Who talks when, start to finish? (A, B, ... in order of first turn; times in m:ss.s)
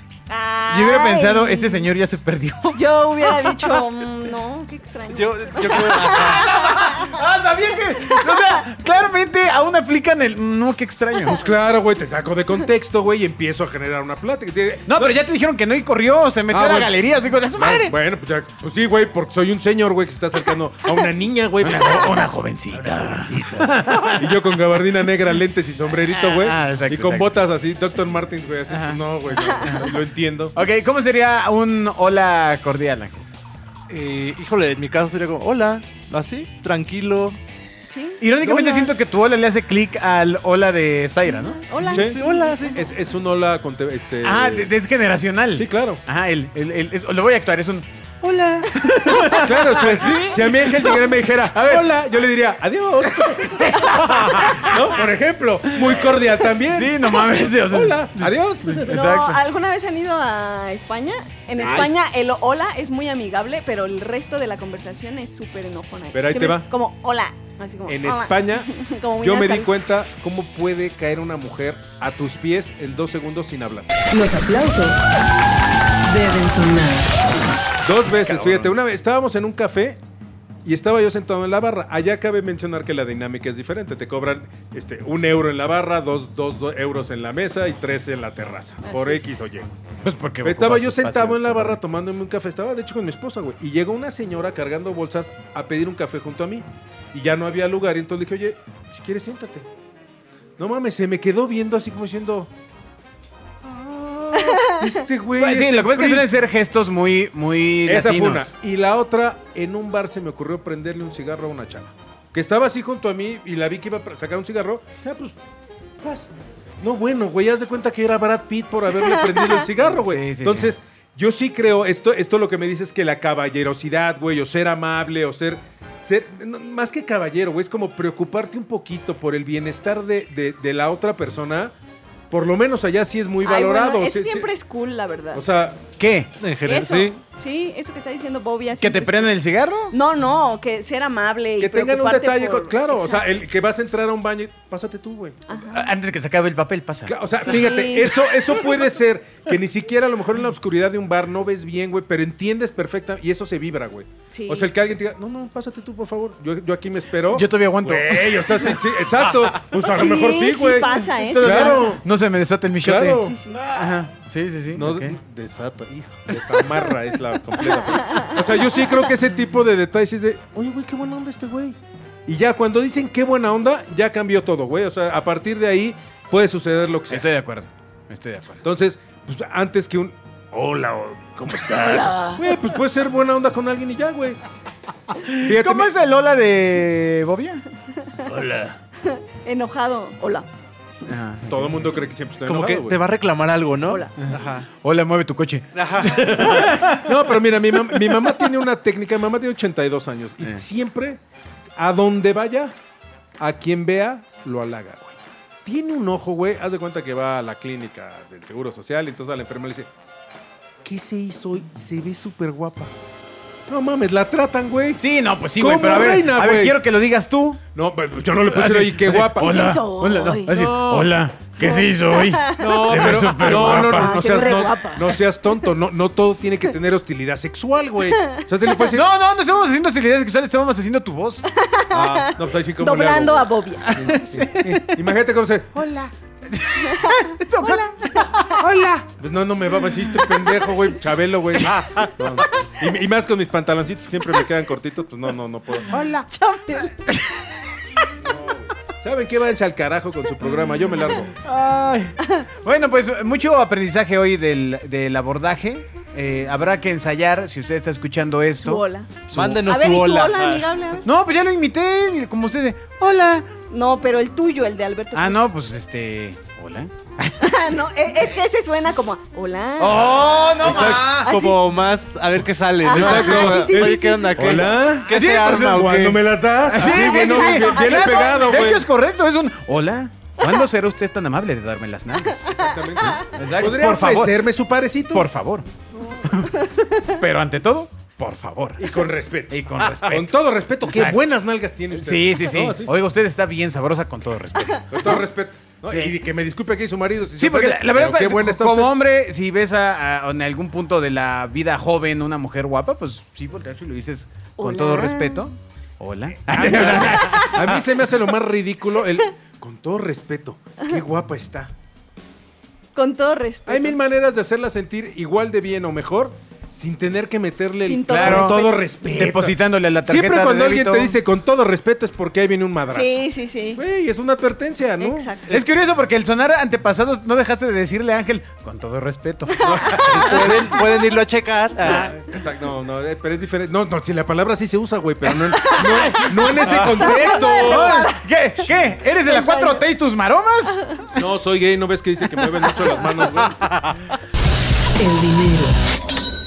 0:00.3-0:01.9 A
0:00.7-0:03.8 B
0:02.7-0:07.2 A
0:05.1-0:06.6 C
0:05.9-0:11.4 B
0:08.1-0:08.5 A
0:11.2-0:15.2 D
0:14.9-0:18.0 B
0:16.5-0:17.0 D
0:17.6-0:30.6 D
0:21.6-0:24.4 B
0:26.1-0:27.3 B
0:28.7-0:29.9 B
0:29.4-0:29.7 A
0:30.6-0:33.2 B
0:33.9-0:37.4 C
0:37.9-0:38.2 A
0:38.2-0:41.6 B
0:38.4-0:38.9 C
0:41.3-0:42.8 A
0:41.8-0:42.9 C
0:41.9-0:42.2 D
0:42.7-0:44.7 D
0:44.2-0:51.9 B
0:45.6-0:46.0 D
0:49.2-0:59.0 D
0:50.0-0:50.4 C
0:53.0-0:54.8 B
0:53.8-0:54.7 A
0:56.6-0:59.4 B
0:58.9-1:09.7 A
1:01.6-1:01.9 D
1:06.1-1:06.7 D
1:07.9-1:13.9 D
1:14.1-1:15.1 E
1:16.1-1:17.2 E
1:17.8-1:20.0 D
1:18.2-1:18.8 B
1:20.6-1:29.7 D
1:28.8-1:29.5 A
1:30.0-1:31.8 B
1:30.4-1:39.7 D
1:40.6-1:42.5 D
1:43.6-1:46.3 D
1:44.4-1:44.6 A
1:45.3-1:48.5 B
1:47.9-1:55.4 D
1:56.0-2:11.7 D
1:58.9-1:59.7 A
1:59.9-2:00.7 B
2:12.3-2:14.5 D
2:13.4-2:15.4 A
2:15.3-2:15.8 D
2:16.0-2:16.3 B
2:16.4-2:17.2 C
2:16.7-2:23.4 A
2:18.8-2:20.0 B
2:21.6-2:25.4 D
2:25.5-2:25.9 A
2:25.5-2:27.7 B
2:27.1-2:42.0 D
2:27.4-2:28.2 A
2:34.3-2:34.7 A
2:37.3-2:39.7 B
2:39.8-2:42.0 A
2:41.0-2:45.2 B
2:42.8-2:43.4 D
2:43.1-2:43.7 A
2:44.7-2:57.2 D
2:46.4-2:46.7 B
2:47.9-2:48.4 A
2:57.1-2:58.6 B
2:58.6-3:04.4 D
3:01.8-3:02.4 A
3:05.2-3:07.6 B
3:05.4-3:05.9 D
3:08.3-3:08.8 C
3:09.0-3:10.5 A
3:11.1-3:12.1 B
3:11.5-3:13.0 D
3:12.4-3:14.7 C
3:13.8-3:14.1 A
3:14.8-3:18.4 B
3:15.7-3:16.7 C
3:16.3-3:21.2 D
3:21.8-3:22.7 D
3:23.4-3:29.9 D
3:30.8-3:32.9 D
3:33.7-3:35.0 D
3:35.0-3:37.6 B
3:35.6-3:36.8 D
3:37.7-3:39.5 D
3:38.4-3:44.7 B
3:39.4-3:40.8 A
3:40.5-3:41.0 D
3:41.6-3:45.2 A
3:42.6-3:49.0 D
3:48.1-3:48.4 A
3:48.9-3:51.4 B
3:51.5-3:54.0 A
3:51.9-3:55.8 D
3:53.9-3:55.0 B
3:55.7-3:59.1 B
3:56.8-3:58.6 A
3:59.2-4:05.9 D
3:59.9-4:00.7 B
4:01.6-4:02.7 B
4:05.9-4:07.5 B
4:06.3-4:06.9 A
4:08.2-4:11.3 D
4:11.2-4:19.6 B
4:18.6-4:21.1 A
4:19.3-4:20.6 C
4:21.0-4:23.5 B
4:23.7-4:25.5 A
4:25.1-4:27.7 B
4:27.4-4:31.6 A
4:29.8-4:31.4 B
4:30.6-4:36.2 C
4:32.8-4:34.7 A
4:32.9-4:33.8 B
4:32.9-4:38.8 D
4:34.6-4:36.1 B
4:36.7-4:42.5 B
4:36.8-4:38.7 A
4:42.4-4:43.2 A
4:42.5-4:45.3 D
4:43.2-4:44.4 B
4:45.1-4:45.7 B
4:46.5-4:47.2 A
4:47.1-4:48.8 B
4:48.8-4:52.9 D
4:49.5-4:51.2 B
4:51.9-4:55.2 B
4:54.9-4:58.9 D
4:55.9-4:56.2 B
4:57.4-5:07.8 B
5:04.6-5:05.5 A
5:06.5-5:11.7 D
5:06.8-5:07.6 A
5:13.0-5:14.0 A
5:13.7-5:25.6 D
5:17.8-5:18.9 A
5:18.1-5:18.6 B
5:19.2-5:21.2 B
5:22.9-5:23.8 A
5:25.0-5:25.6 A
5:25.5-5:30.8 B
5:29.6-5:30.6 A
5:29.6-5:30.8 D
5:30.1-5:32.1 C
5:31.8-5:32.4 B
5:31.8-5:38.0 D
5:35.6-5:41.2 B
5:35.6-5:36.2 A
5:37.0-5:38.2 A
5:39.2-5:39.8 A
5:41.2-5:43.6 D
5:42.4-5:44.1 B
5:45.0-5:45.8 E